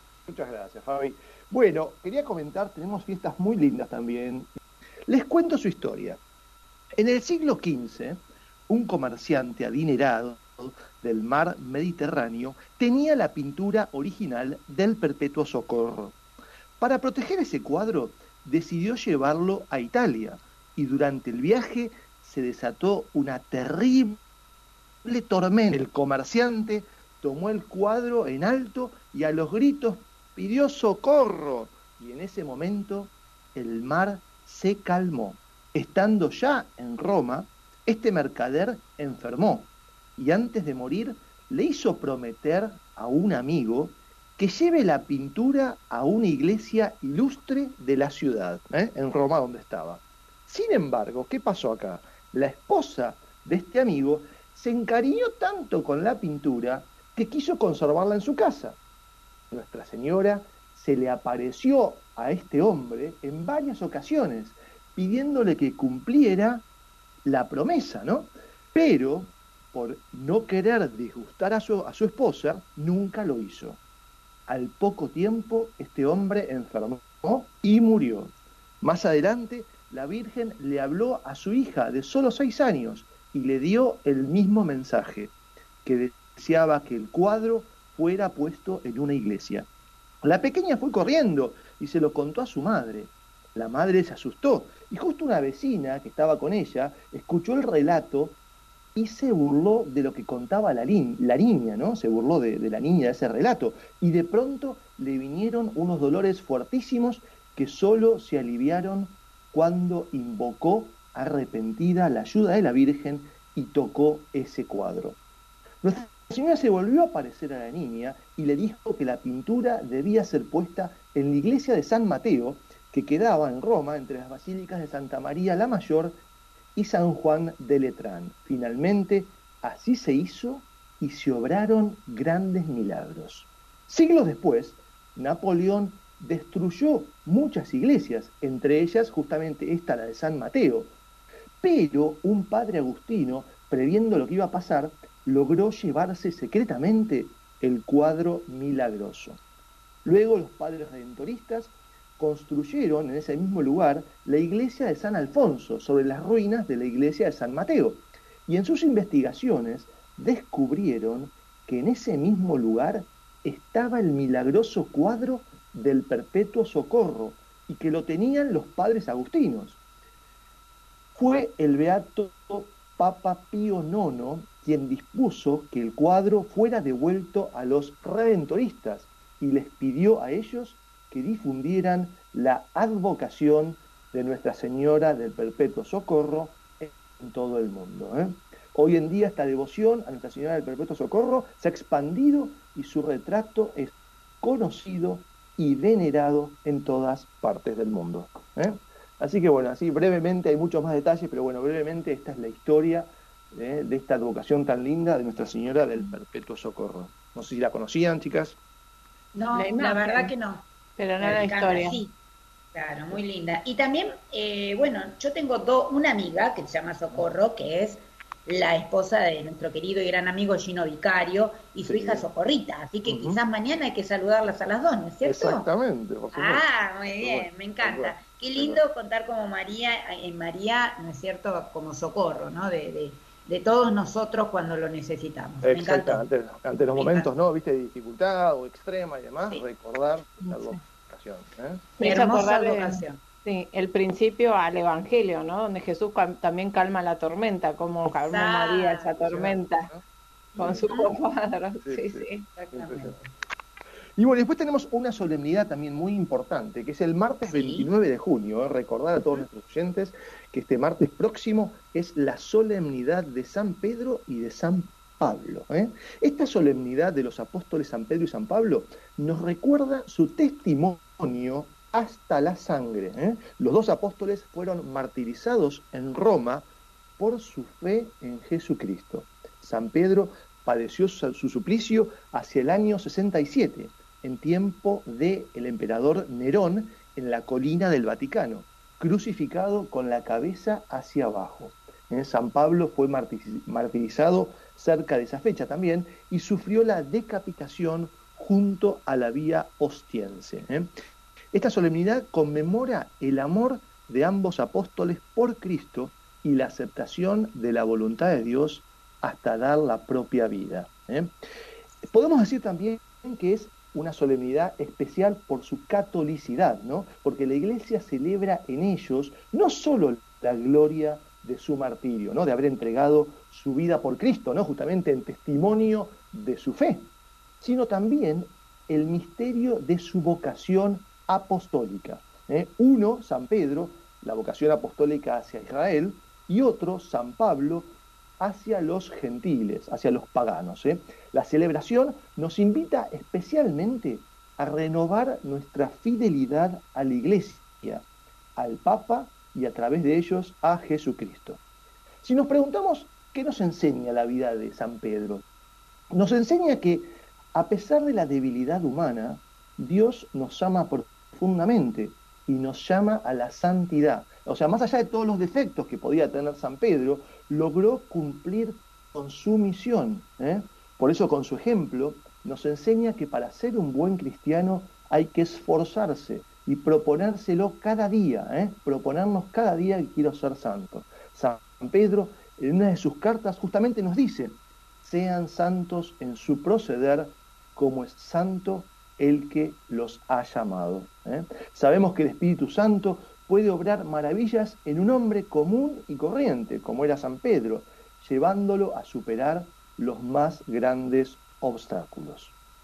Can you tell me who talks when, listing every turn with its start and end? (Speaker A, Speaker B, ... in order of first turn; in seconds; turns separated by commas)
Speaker A: 0.3-4.5, Speaker A: 5.1-6.2, Speaker A: 7.0-16.1, Speaker A: 16.8-24.2, Speaker A: 25.0-58.8, Speaker A: 59.5-66.6, Speaker A: 67.2-73.8, Speaker A: 74.5-85.3, Speaker A: 85.8-89.7, Speaker A: 90.2-98.4, Speaker A: 98.9-115.2, Speaker A: 115.8-126.2, Speaker A: 126.8-140.9, Speaker A: 141.6-149.4, Speaker A: 150.0-169.8, Speaker A: 171.1-208.6, Speaker B: 209.3-210.7, Speaker C: 209.5-210.3, Speaker C: 211.0-212.0, Speaker B: 211.2-212.2, Speaker B: 212.7-225.7, Speaker A: 221.8-222.3, Speaker A: 223.1-223.4, Speaker A: 225.2-228.8, Speaker B: 226.3-236.2, Speaker A: 235.6-241.9, Speaker B: 236.9-237.3, Speaker C: 240.4-240.8, Speaker C: 242.0-249.9, Speaker B: 242.0-243.2, Speaker B: 248.2-249.1, Speaker A: 249.2-250.0, Speaker C: 250.6-252.4, Speaker A: 250.6-251.2, Speaker A: 251.8-253.2, Speaker B: 252.5-253.3, Speaker A: 254.2-276.7, Speaker B: 257.4-257.9, Speaker A: 277.2-300.9, Speaker A: 301.5-311.3, Speaker A: 312.1-327.1, Speaker A: 327.6-348.0, Speaker A: 348.6-351.6, Speaker A: 352.2-355.4, Speaker A: 356.1-402.5